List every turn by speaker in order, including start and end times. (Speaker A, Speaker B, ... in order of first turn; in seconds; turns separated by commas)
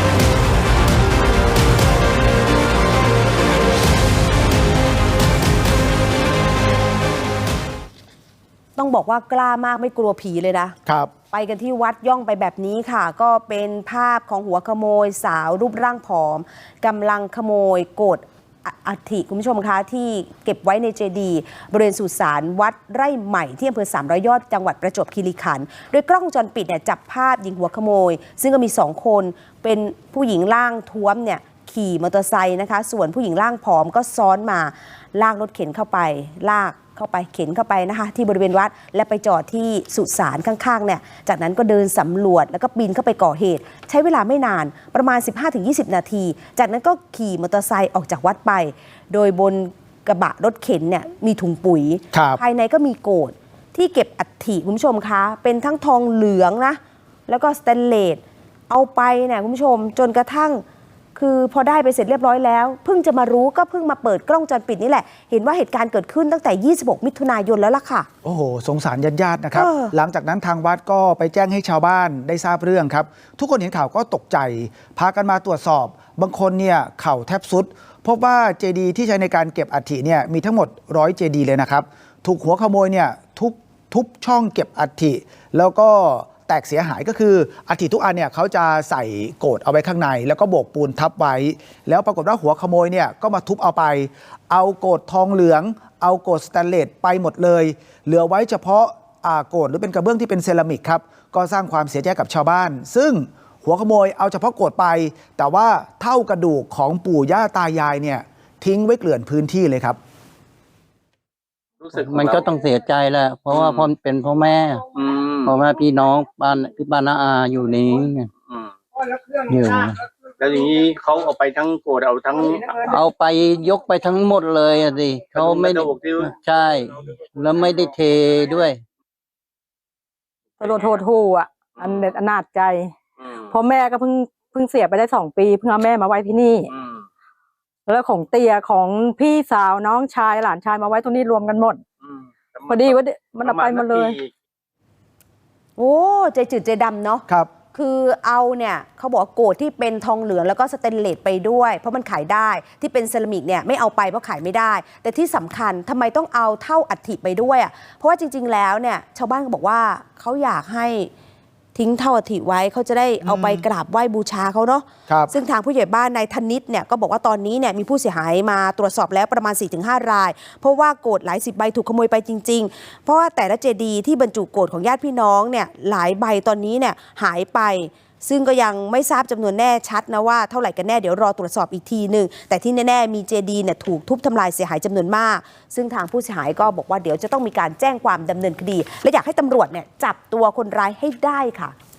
Speaker A: 8.8-10.8, Speaker B: 10.9-11.1, Speaker A: 11.3-60.6, Speaker B: 52.1-52.4, Speaker A: 61.1-68.1, Speaker B: 68.2-110.0, Speaker A: 69.5-69.9, Speaker C: 111.8-112.5, Speaker D: 111.9-114.9, Speaker C: 113.5-113.9, Speaker C: 114.9-115.5, Speaker D: 115.4-118.3, Speaker C: 118.5-118.8, Speaker D: 119.3-120.1, Speaker C: 120.4-122.8, Speaker D: 122.7-128.8, Speaker C: 125.3-126.3, Speaker C: 130.6-131.0, Speaker E: 130.6-132.9, Speaker C: 131.8-132.2, Speaker C: 133.2-133.6, Speaker E: 133.5-136.7, Speaker C: 136.7-137.1, Speaker E: 137.9-141.8, Speaker C: 142.0-144.3, Speaker E: 142.7-144.2, Speaker A: 145.8-161.1, Speaker A: 161.8-191.7, Speaker B: 163.2-163.6